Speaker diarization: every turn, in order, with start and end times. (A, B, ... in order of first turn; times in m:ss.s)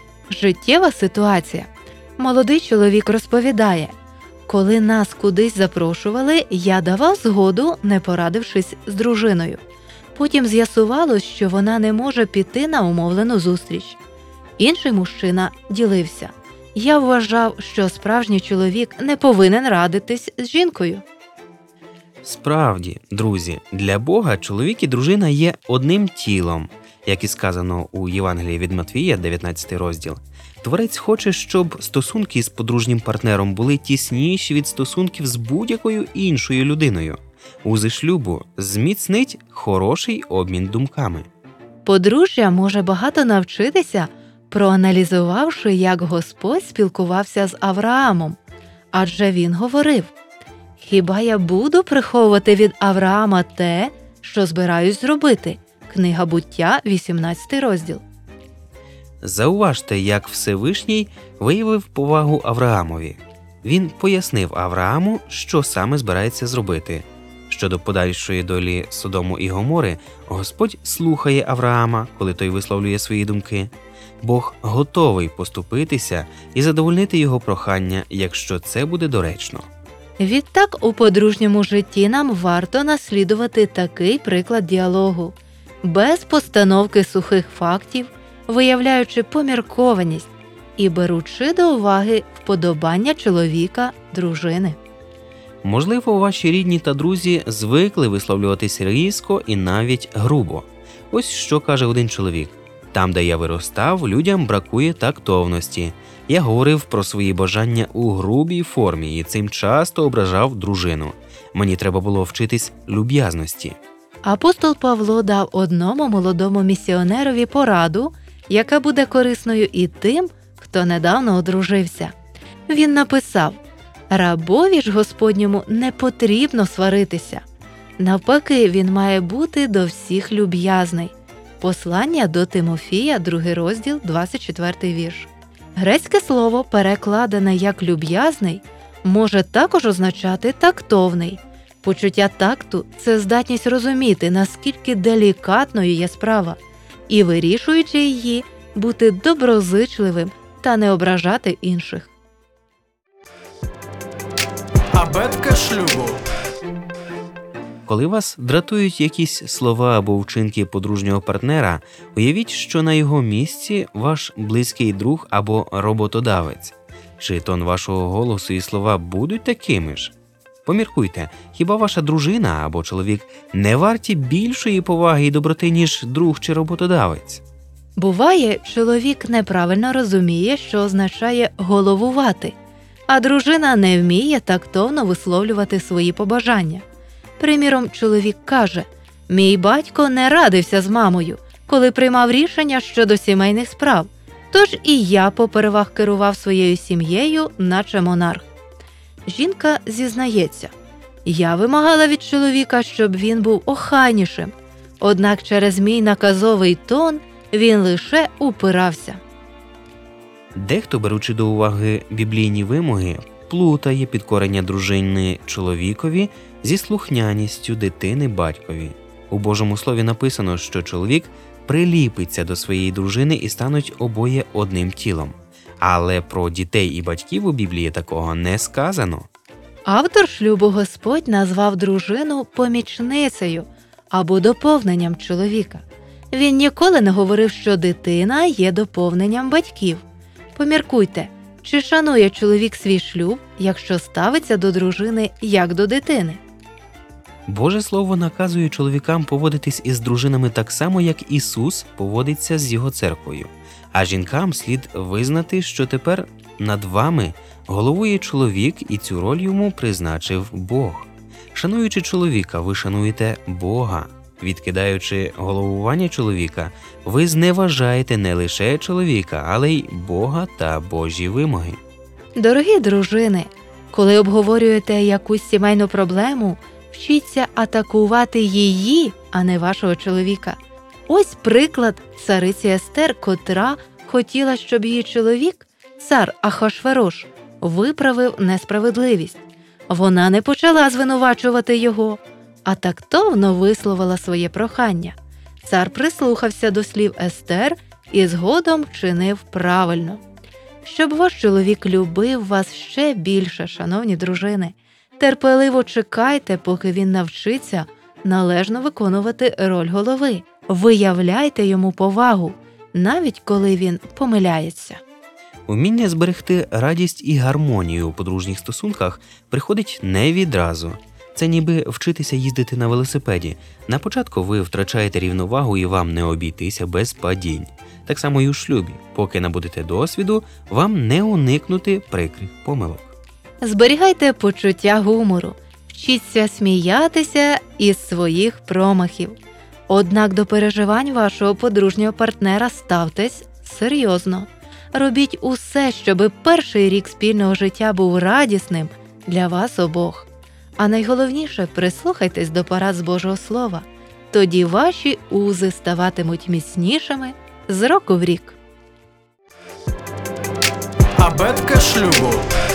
0:00.3-0:03.9 A
0:04.4-0:09.6 A
0:10.1-0:14.0 A
0:14.6-0:21.0 A
0:22.2-0:41.3 B
0:41.8-0:48.4 A
0:48.9-0:50.1 A
0:50.8-0:58.0 A
0:59.2-1:13.7 B
1:14.2-1:19.6 B
1:20.2-1:34.8 A
1:35.6-1:53.8 B
1:54.2-2:02.1 A
2:02.7-2:03.6 A
2:04.1-2:07.4 A
2:08.0-2:32.1 A
2:34.9-2:36.2 C
2:37.8-2:50.1 B
2:50.6-2:57.4 B
2:58.0-3:02.5 A
3:03.1-3:06.8 A
3:07.4-3:18.5 A
3:19.2-3:20.7 A
3:21.2-3:29.2 A
3:30.5-3:49.3 B
3:49.8-4:00.0 A
4:00.5-4:06.4 A
4:07.5-4:31.8 B
4:32.3-5:00.2 A
5:00.8-5:15.0 A
5:15.7-5:33.1 B
5:33.6-5:39.4 A
5:39.9-5:58.6 A
6:01.2-6:02.4 C